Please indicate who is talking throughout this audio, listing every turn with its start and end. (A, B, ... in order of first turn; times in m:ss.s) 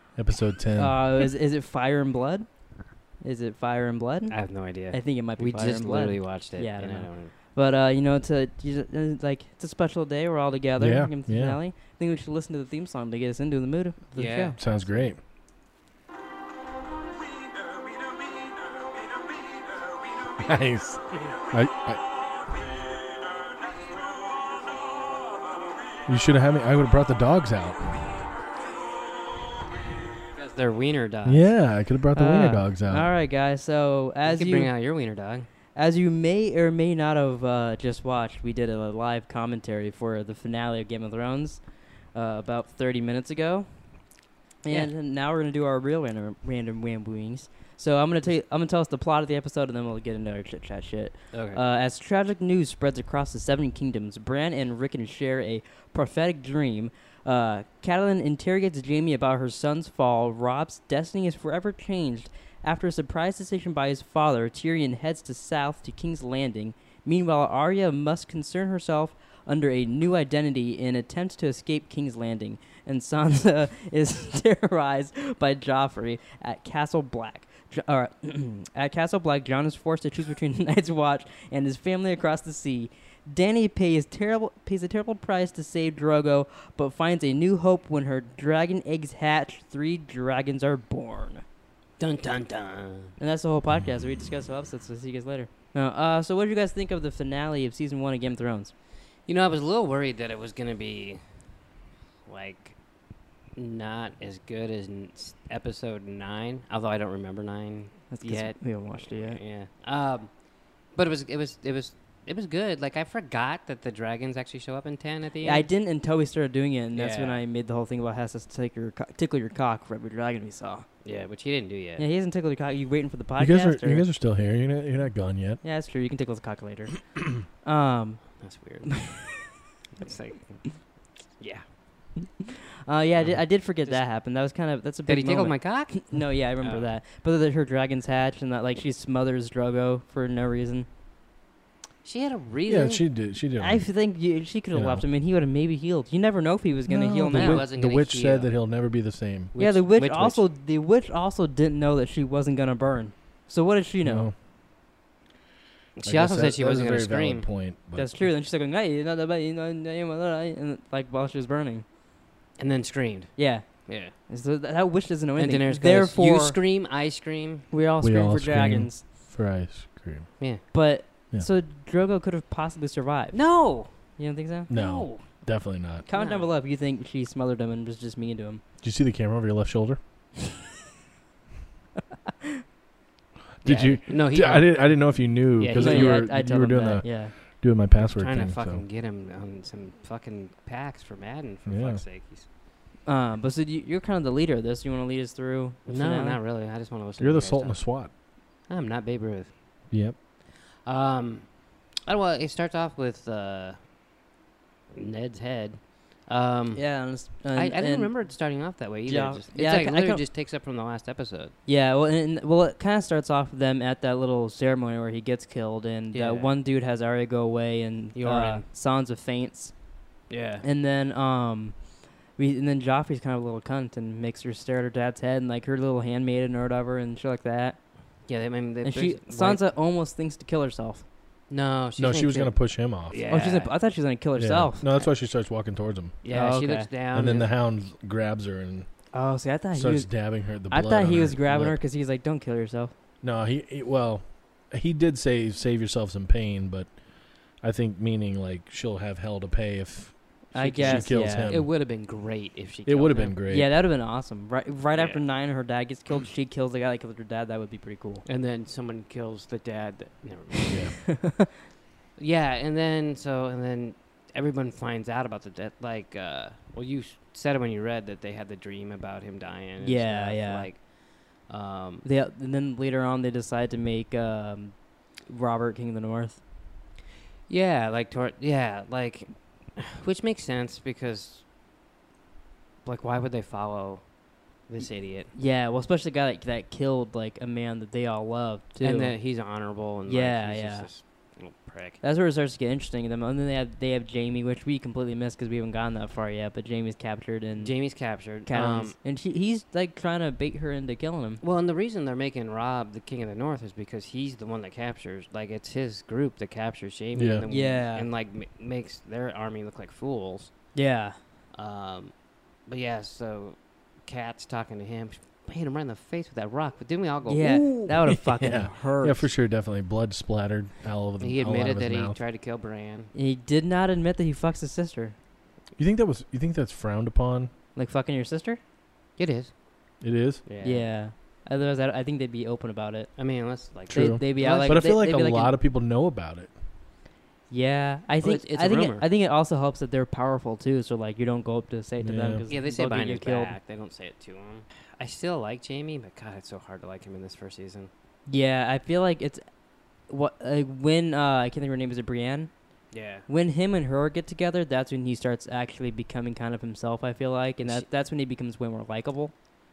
0:00.1-0:01.0 A
0:00.8-0:02.6 B
0:03.2-0:14.6 B
0:04.3-0:07.3 C
0:10.8-0:11.6 A
0:14.1-0:15.1 C
0:14.6-0:15.2 A
0:20.4-0:22.0 A
0:26.0-0:28.2 A
0:30.3-0:31.6 C
0:31.2-0:33.1 A
0:32.1-0:34.7 B
0:34.2-0:35.5 C
0:35.7-0:43.8 B
0:44.6-1:31.4 B
0:51.3-0:51.6 C
1:32.0-1:33.2 C
1:33.2-1:38.7 B
1:39.2-1:41.4 C
1:42.2-1:42.8 C
1:43.6-1:50.4 C
1:48.1-1:49.4 B
1:50.9-1:55.7 C
1:55.4-2:00.8 B
1:56.9-1:57.4 C
2:01.0-2:02.0 C
2:02.0-2:04.0 B
2:03.4-2:05.6 A
2:05.6-2:08.4 B
2:08.4-2:11.6 C
2:12.2-2:20.9 B
2:13.8-2:14.1 C
2:15.1-2:16.1 C
2:16.6-2:16.9 C
2:22.0-2:23.0 C
2:22.7-2:23.8 A
2:23.6-2:27.6 B
2:24.7-2:25.0 A
2:26.9-2:29.5 A
2:27.3-2:28.5 C
2:29.5-2:30.4 C
2:29.6-2:34.3 B
2:34.0-2:34.3 A
2:36.0-2:37.5 C
2:36.0-2:38.3 A
2:37.9-2:41.8 B
2:42.6-2:44.1 C
2:43.4-2:46.6 B
2:45.4-2:47.7 C
2:47.7-2:49.0 B
2:48.0-2:50.3 A
2:50.4-2:50.6 C
2:50.7-2:54.7 B
2:53.3-2:54.2 C
2:54.7-2:56.0 A
2:54.7-2:55.4 C
2:56.0-2:58.6 B
2:56.1-2:56.5 C
2:58.8-3:00.0 A
3:03.6-3:08.8 A
3:03.6-3:06.2 C
3:05.7-3:07.3 B
3:08.0-3:12.5 C
3:11.6-3:12.0 A
3:13.0-3:16.4 B
3:15.8-3:18.0 C
3:17.2-3:18.1 A
3:18.7-3:19.5 C
3:19.9-3:20.2 A
3:20.7-3:23.8 C
3:24.9-3:31.5 C
3:26.7-3:28.2 B
3:29.0-3:30.2 B
3:31.6-3:39.7 B
3:36.1-3:36.5 C
3:38.1-3:38.6 C
3:40.3-3:40.6 C
3:40.6-3:47.8 B
3:48.2-3:49.6 C
3:48.8-3:51.0 B
3:51.5-3:53.7 C
3:52.0-3:53.2 A
3:53.3-3:54.8 B
3:54.4-3:56.2 A
3:56.2-3:57.5 C
3:56.3-3:56.9 B
3:57.1-3:58.9 A
3:59.1-4:02.9 B
3:59.7-4:01.8 A
4:03.2-4:11.7 A
4:10.5-4:11.5 B
4:10.5-4:13.4 C
4:12.8-4:13.7 A
4:13.5-4:18.2 B
4:14.9-4:15.2 C
4:18.2-4:21.1 C
4:20.7-4:21.0 A
4:21.1-4:21.5 B
4:22.2-4:30.9 C
4:29.8-4:30.7 B
4:31.4-4:32.0 C
4:32.0-4:36.4 B
4:37.5-4:41.4 C
4:42.8-4:44.1 C
4:44.7-4:45.3 C
4:45.3-4:49.2 B
4:48.8-4:52.0 C
4:50.0-4:50.9 B
4:52.0-5:01.4 B
4:57.6-4:59.0 C
5:01.4-5:10.7 C
5:07.1-5:07.4 A
5:07.5-5:08.1 B
5:10.7-5:11.2 B
5:11.5-5:12.1 C
5:12.6-5:18.6 C
5:17.2-5:19.3 B
5:18.0-5:22.2 A
5:21.2-5:23.1 C
5:23.1-5:25.2 B
5:25.8-5:27.5 A
5:27.7-5:28.6 B
5:29.2-5:29.5 C
5:30.0-5:30.4 A
5:30.4-5:30.9 C
5:30.6-5:33.1 B
5:33.2-5:34.8 C
5:33.9-5:36.5 A
5:33.9-5:35.5 B
5:37.5-5:43.5 B
5:38.2-5:39.1 C
5:42.0-5:42.4 A
5:42.5-5:47.9 C
5:48.3-5:49.4 B
5:50.1-5:52.5 B
5:52.9-5:53.3 C
5:53.3-5:59.3 B